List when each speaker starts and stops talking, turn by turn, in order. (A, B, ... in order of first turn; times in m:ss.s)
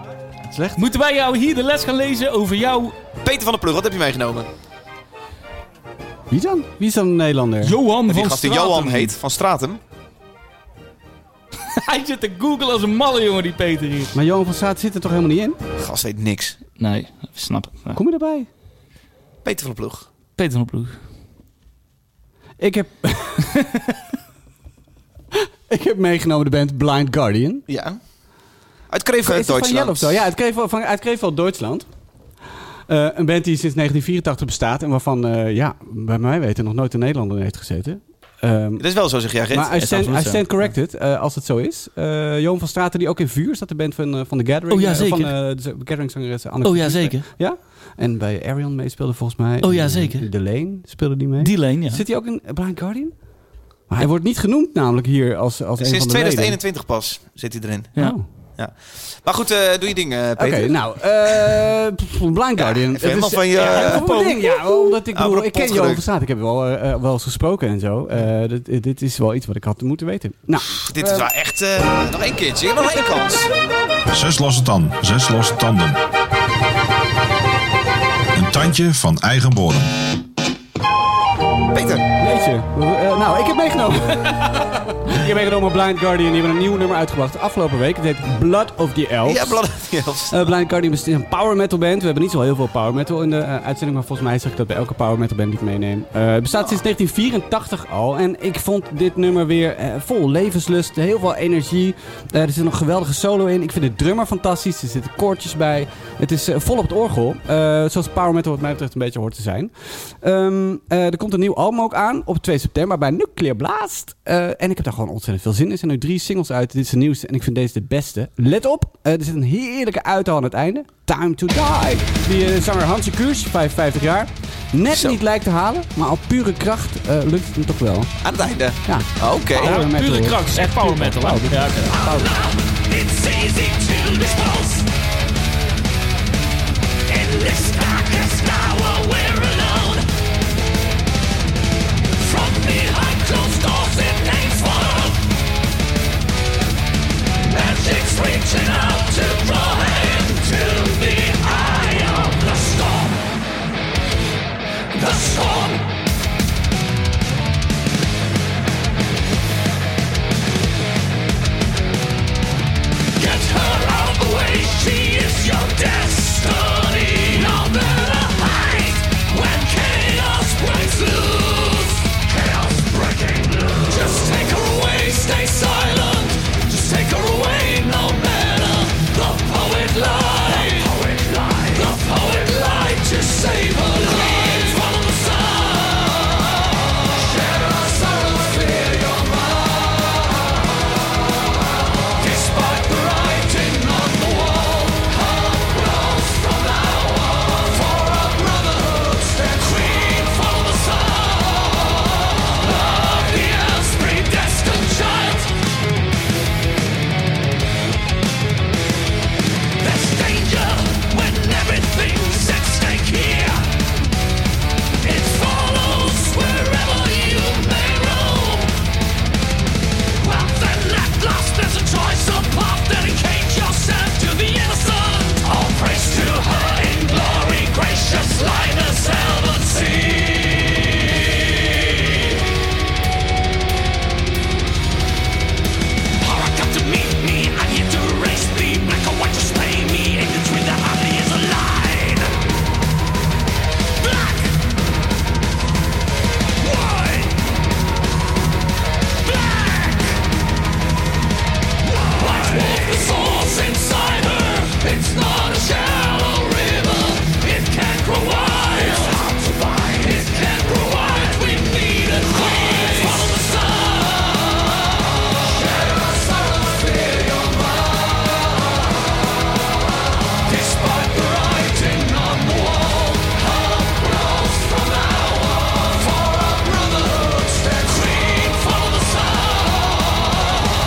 0:00.5-0:00.8 A
0:00.8-0:03.0 B
0:03.2-0:04.5 C
0:06.3-0:07.7 A
0:07.6-0:09.1 B
0:08.1-0:09.8 C
0:11.8-0:14.1 B
0:14.1-0:15.6 A
0:15.8-0:16.6 C
0:16.8-0:18.0 B
0:17.9-0:18.5 A
0:19.4-0:20.0 C
0:20.4-0:21.0 B
0:22.6-0:23.7 A
0:25.7-0:27.6 A
0:27.7-0:28.0 C
0:28.9-0:30.2 C
0:29.2-0:31.8 A
0:32.9-0:38.8 A
0:38.8-0:39.7 C
0:39.5-0:53.1 A
0:39.8-0:40.4 B
0:44.7-0:45.3 B
0:46.6-0:47.3 B
0:49.6-0:50.3 B
0:51.4-0:52.0 B
0:53.9-0:56.6 A
0:55.8-0:58.0 C
0:58.0-0:58.2 A
0:58.6-1:00.8 C
1:00.4-1:11.2 A
1:02.6-1:04.4 C
1:03.6-1:04.4 B
1:05.1-1:06.0 C
1:10.7-1:13.5 C
1:14.1-1:16.0 D
1:18.3-1:19.9 D
1:21.7-1:22.1 C
1:22.2-1:29.6 A
1:29.2-1:30.5 C
1:30.3-2:08.2 A
2:04.9-2:05.2 C
2:08.2-2:09.8 C
2:08.8-2:12.3 A
2:09.6-2:12.4 B
2:12.6-2:14.8 E
2:17.1-2:20.0 E
2:22.2-2:25.2 E
2:24.1-2:24.4 B
2:27.5-2:33.2 E
2:35.0-2:35.9 E
2:43.2-3:00.9 E
2:47.1-2:47.8 B
2:54.8-2:55.2 B
3:01.6-3:05.7 E
3:04.2-3:04.7 B
3:08.5-3:09.2 E
3:12.2-3:15.2 E
3:16.5-3:21.7 E
3:22.9-3:25.5 E
3:29.8-3:33.7 E
3:35.0-3:38.7 E
3:40.2-3:50.8 E
3:56.2-4:02.4 E
4:06.7-4:07.3 E
4:09.6-4:10.0 E
4:12.2-4:24.2 E
4:22.8-4:23.4 B
4:27.0-4:27.5 E
4:30.5-4:33.4 E
4:34.1-4:40.0 E